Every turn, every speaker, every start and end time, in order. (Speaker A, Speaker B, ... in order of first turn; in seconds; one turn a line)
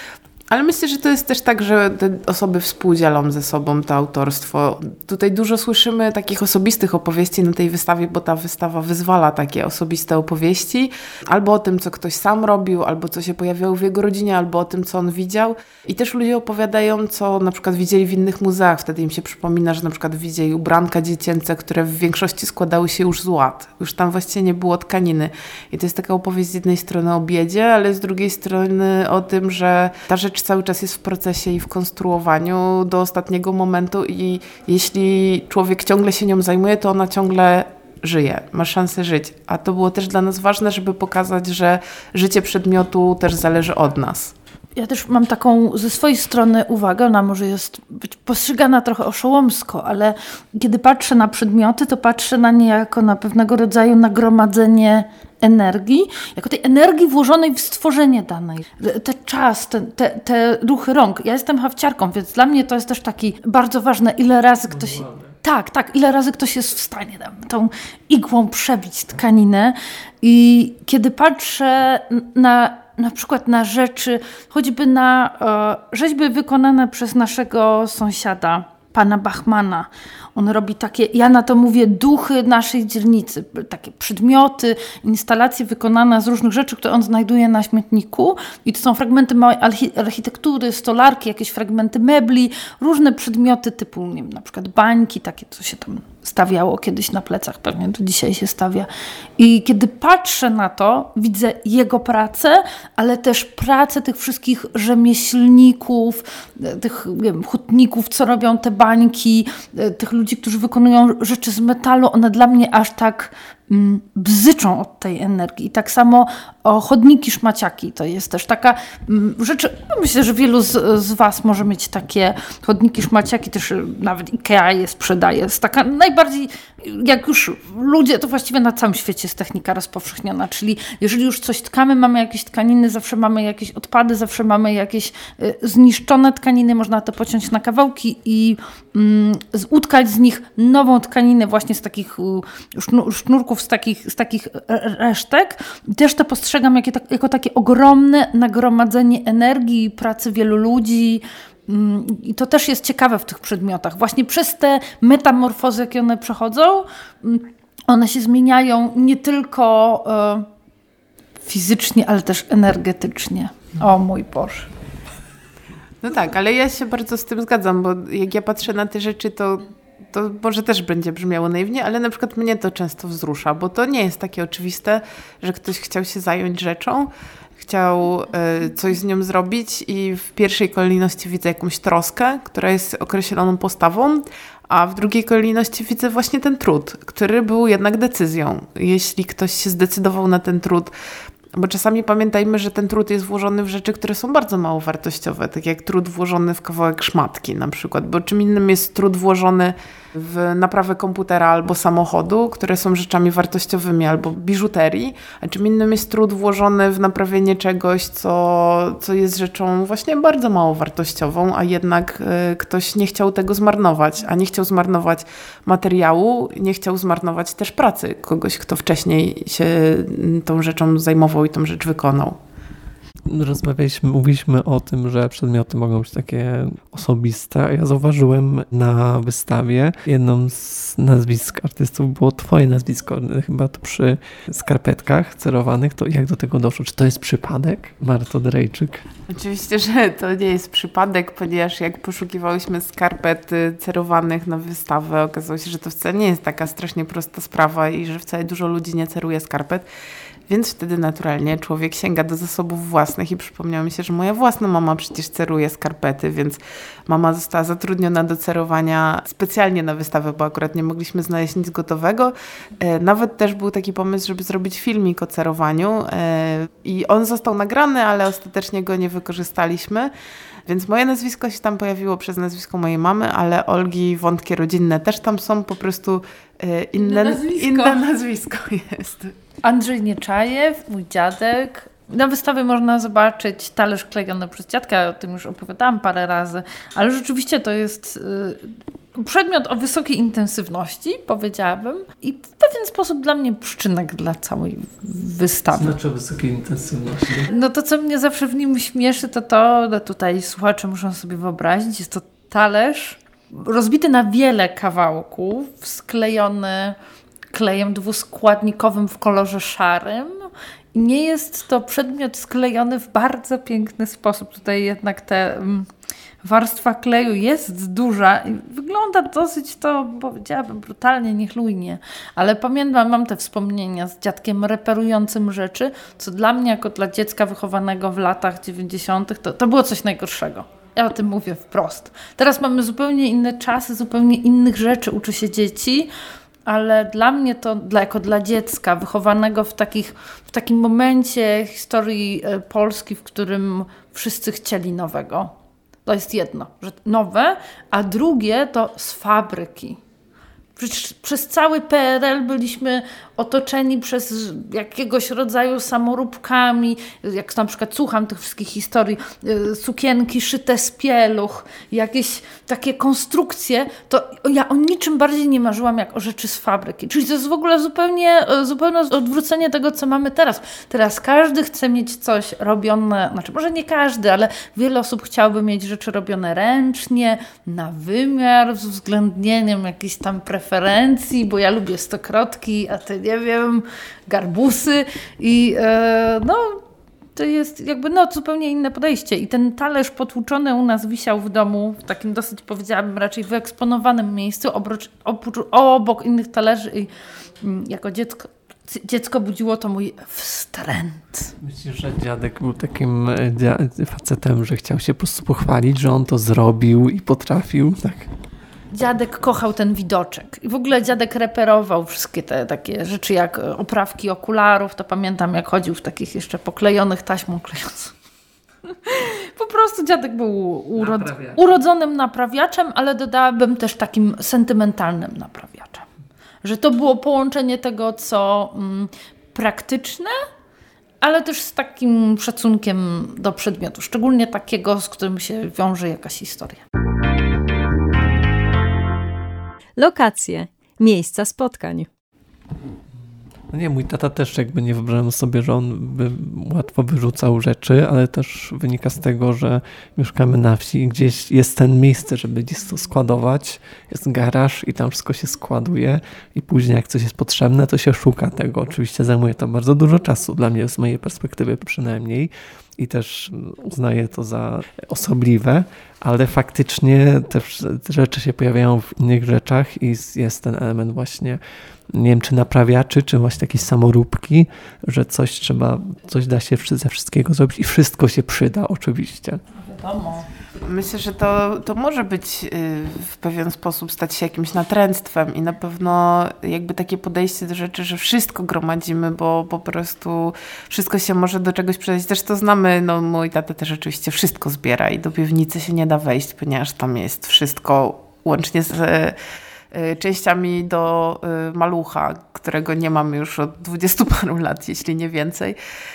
Speaker A: 0.5-44.3
Speaker B: 44.8-160.5
Speaker C: 65.0-65.3
Speaker B: 161.4-164.7
Speaker A: 166.0-190.9
Speaker A: 191.5-222.4
Speaker C: 223.3-239.0
Speaker A: 239.3-249.8
Speaker A: 250.5-270.1
Speaker A: 270.6-279.4
Speaker B: 277.0-278.0
Speaker B: 279.6-295.9
Speaker C: 295.7-297.5
Speaker B: 297.5-307.0
Speaker B: 307.5-315.9
Speaker B: 316.4-336.1
Speaker B: 336.6-345.5
Speaker B: 346.1-350.0
Speaker B: 350.8-386.8
Speaker B: 387.3-401.5
Speaker C: 401.6-408.3
Speaker B: 408.9-418.1
Speaker B: 418.9-426.1
Speaker C: 421.0-421.6
Speaker B: 426.6-430.4
Speaker B: 431.2-436.8
Speaker D: 440.0-442.1
Speaker C: 443.7-471.6
Speaker C: 472.1-479.6
Speaker B: 479.7-480.5
Speaker A: 480.8-499.4
Speaker A: 499.9-505.8